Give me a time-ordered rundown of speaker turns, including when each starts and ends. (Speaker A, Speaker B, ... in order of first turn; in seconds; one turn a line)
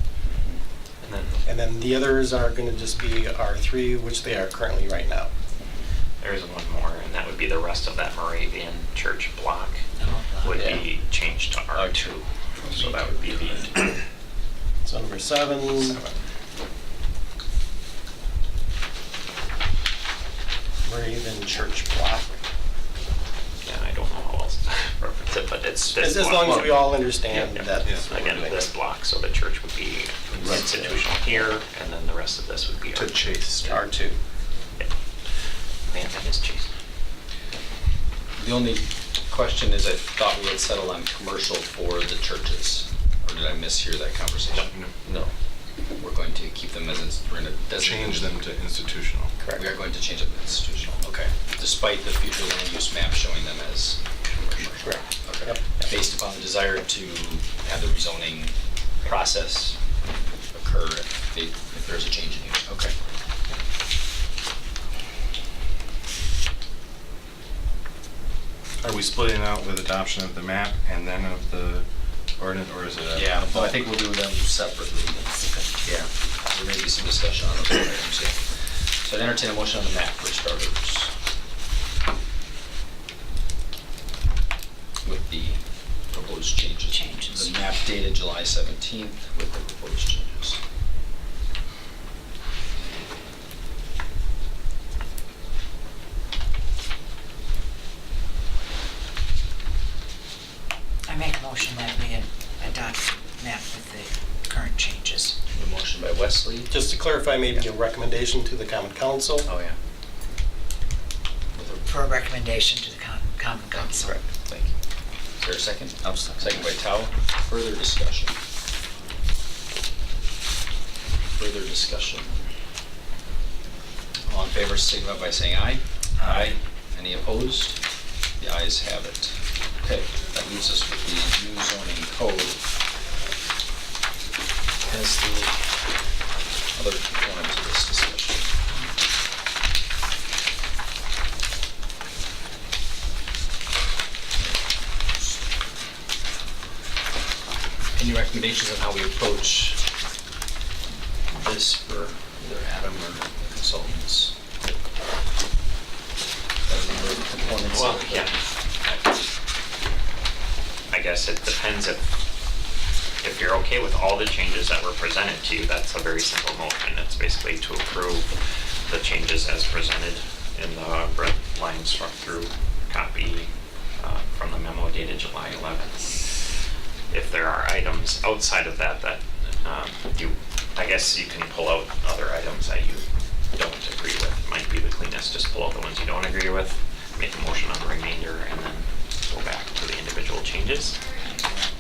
Speaker A: 0.3-0.6
Speaker B: 1.0-1.4
Speaker C: 1.4-5.3
Speaker B: 6.2-9.8
Speaker D: 10.0-10.7
Speaker B: 10.4-14.0
Speaker A: 10.5-10.8
Speaker A: 11.7-12.2
Speaker C: 14.8-16.0
Speaker B: 15.8-16.2
Speaker C: 20.8-22.3
Speaker B: 23.6-33.7
Speaker C: 25.9-28.7
Speaker E: 30.4-31.0
Speaker E: 32.9-33.8
Speaker C: 33.6-34.2
Speaker B: 35.9-36.7
Speaker A: 38.4-44.7
Speaker B: 44.5-45.3
Speaker E: 44.6-44.9
Speaker A: 46.0-48.4
Speaker E: 47.8-49.4
Speaker A: 49.5-59.8
Speaker A: 60.5-62.9
Speaker E: 68.8-71.9
Speaker E: 72.4-73.9
Speaker A: 73.1-75.3
Speaker A: 75.8-78.5
Speaker A: 79.0-81.1
Speaker A: 85.0-90.6
Speaker D: 86.9-87.5
Speaker D: 101.1-105.3
Speaker A: 105.5-106.7
Speaker C: 106.7-109.5
Speaker A: 109.5-109.8
Speaker A: 111.6-111.9
Speaker D: 111.9-114.2
Speaker A: 113.8-114.7
Speaker A: 115.4-118.3
Speaker B: 116.0-116.4
Speaker A: 121.4-122.4
Speaker A: 124.3-127.8
Speaker E: 126.2-126.6
Speaker A: 128.4-132.6
Speaker A: 134.8-135.6
Speaker A: 136.7-138.5
Speaker A: 148.0-149.8
Speaker A: 151.3-154.5
Speaker A: 156.7-158.3
Speaker B: 157.7-158.4
Speaker B: 160.9-162.1
Speaker B: 163.2-176.4
Speaker B: 177.1-191.0